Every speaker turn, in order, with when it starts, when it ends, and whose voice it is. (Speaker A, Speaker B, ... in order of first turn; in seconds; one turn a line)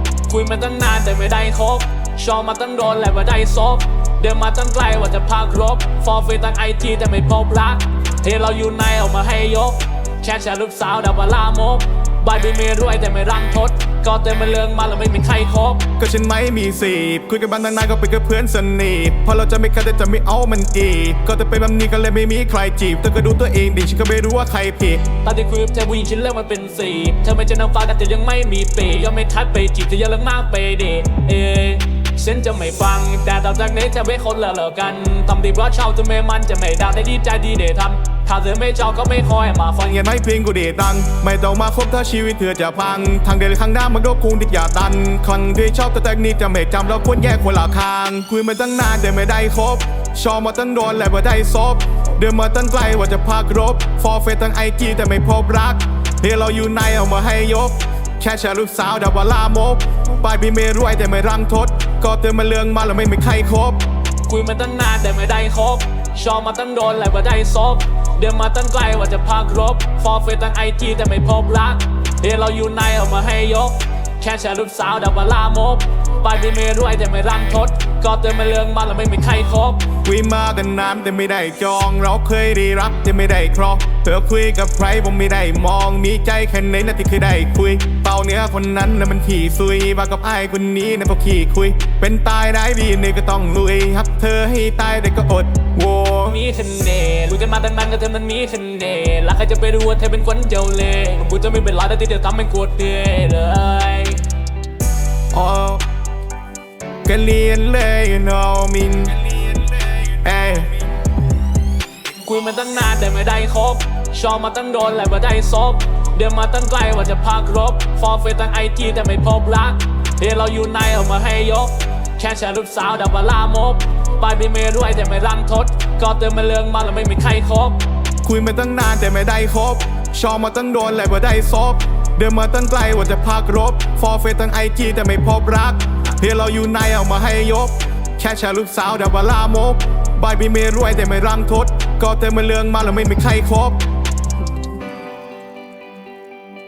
Speaker A: 0.3-15.8
Speaker B: 16.0-25.1
Speaker A: 25.2-40.0
Speaker B: 39.9-63.8
Speaker A: 64.2-79.9
Speaker B: 80.0-96.4
Speaker A: 96.3-104.3
Speaker B: 105.3-105.8
Speaker B: 107.0-110.9
Speaker A: 112.2-127.8
Speaker B: 128.2-143.8